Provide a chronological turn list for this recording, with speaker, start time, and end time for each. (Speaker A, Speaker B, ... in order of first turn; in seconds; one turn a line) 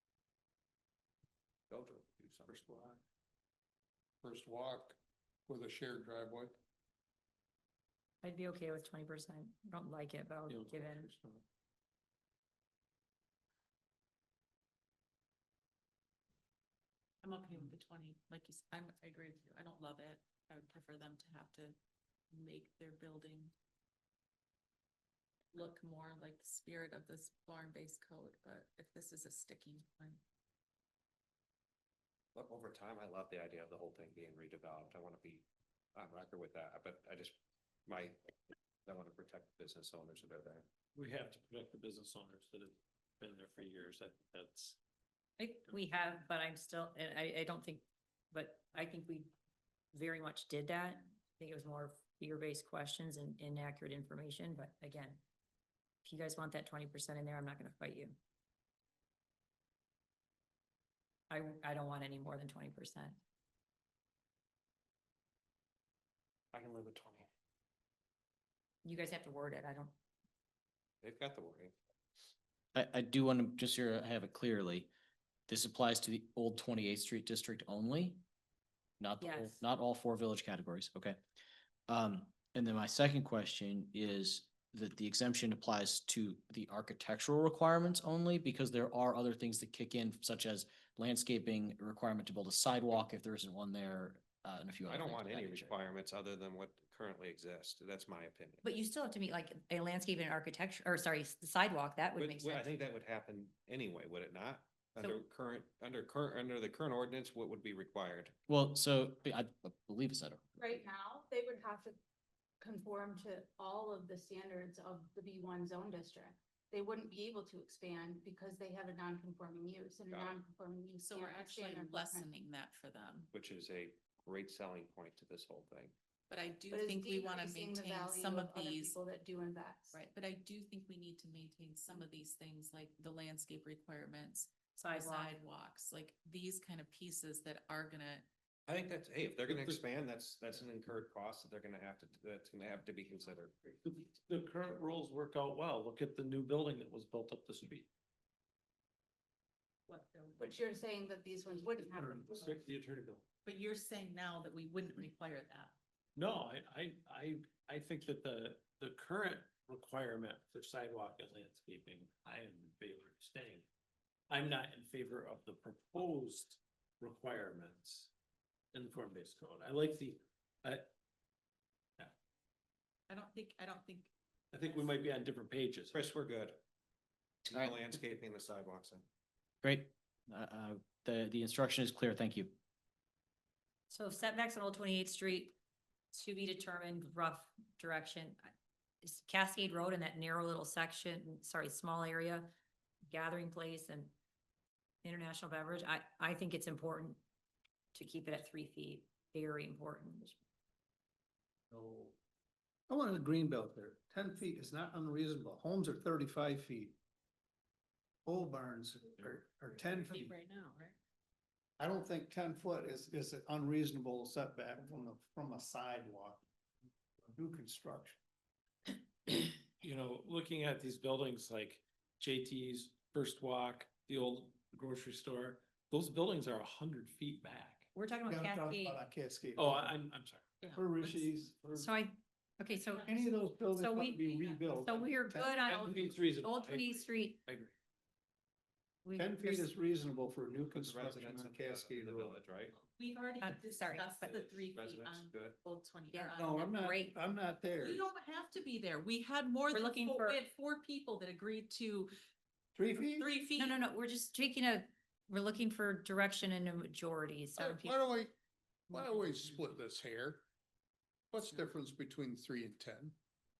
Speaker A: 1.7-2.8
Speaker B: 2.5-3.0
Speaker B: 4.2-5.0
Speaker B: 5.5-6.6
Speaker C: 8.2-11.1
Speaker D: 10.5-11.4
Speaker E: 17.2-21.8
Speaker E: 22.3-23.5
Speaker E: 25.5-30.2
Speaker A: 32.3-38.3
Speaker A: 38.9-40.7
Speaker D: 41.0-44.8
Speaker C: 45.4-49.3
Speaker C: 49.9-55.2
Speaker C: 56.0-58.2
Speaker C: 61.3-63.2
Speaker A: 66.5-67.3
Speaker C: 68.8-69.9
Speaker A: 71.0-71.8
Speaker F: 72.8-74.9
Speaker F: 75.5-78.2
Speaker F: 79.0-81.2
Speaker C: 79.2-79.6
Speaker F: 81.9-95.8
Speaker A: 94.9-98.6
Speaker C: 98.6-102.7
Speaker A: 102.2-108.4
Speaker F: 108.5-110.5
Speaker G: 110.6-112.0
Speaker G: 112.6-122.3
Speaker A: 120.1-120.4
Speaker E: 121.0-123.3
Speaker A: 123.3-125.9
Speaker E: 126.3-129.0
Speaker G: 126.7-130.0
Speaker E: 129.9-138.2
Speaker C: 134.8-135.3
Speaker A: 138.7-143.7
Speaker D: 139.5-139.8
Speaker D: 143.8-147.9
Speaker E: 149.9-150.4
Speaker G: 150.4-152.5
Speaker D: 152.0-153.2
Speaker E: 153.4-155.7
Speaker D: 156.1-163.6
Speaker D: 164.3-168.1
Speaker D: 168.7-170.9
Speaker E: 173.1-174.9
Speaker D: 174.5-176.1
Speaker A: 175.9-176.6
Speaker A: 177.4-179.1
Speaker F: 177.5-177.8
Speaker F: 179.6-182.6
Speaker C: 183.9-185.5
Speaker C: 186.1-188.5
Speaker C: 189.0-192.5
Speaker C: 193.1-194.1
Speaker C: 195.0-197.2
Speaker C: 197.9-200.3
Speaker H: 201.7-202.1
Speaker H: 202.9-206.9
Speaker H: 208.2-210.3
Speaker E: 209.9-210.9
Speaker H: 211.8-216.4
Speaker H: 217.3-218.2
Speaker D: 219.2-227.9
Speaker C: 227.9-229.0
Speaker H: 228.3-229.9
Speaker D: 229.6-230.7
Speaker E: 230.6-231.3
Speaker H: 230.7-231.9
Speaker C: 231.8-233.1
Speaker E: 232.7-233.5
Speaker H: 233.1-236.0
Speaker C: 233.7-234.2
Speaker E: 234.1-234.8
Speaker C: 234.8-237.4
Speaker D: 235.6-237.7
Speaker C: 239.0-239.7
Speaker H: 239.2-242.4
Speaker A: 240.5-242.8
Speaker E: 242.9-246.9
Speaker C: 243.4-244.0
Speaker A: 244.1-245.6
Speaker C: 246.1-247.1
Speaker H: 246.3-248.1
Speaker E: 247.8-252.1
Speaker C: 249.7-250.4
Speaker H: 252.8-253.3
Speaker E: 253.1-253.8
Speaker C: 253.6-258.0
Speaker B: 257.6-258.3
Speaker B: 258.9-260.4
Speaker B: 261.3-263.1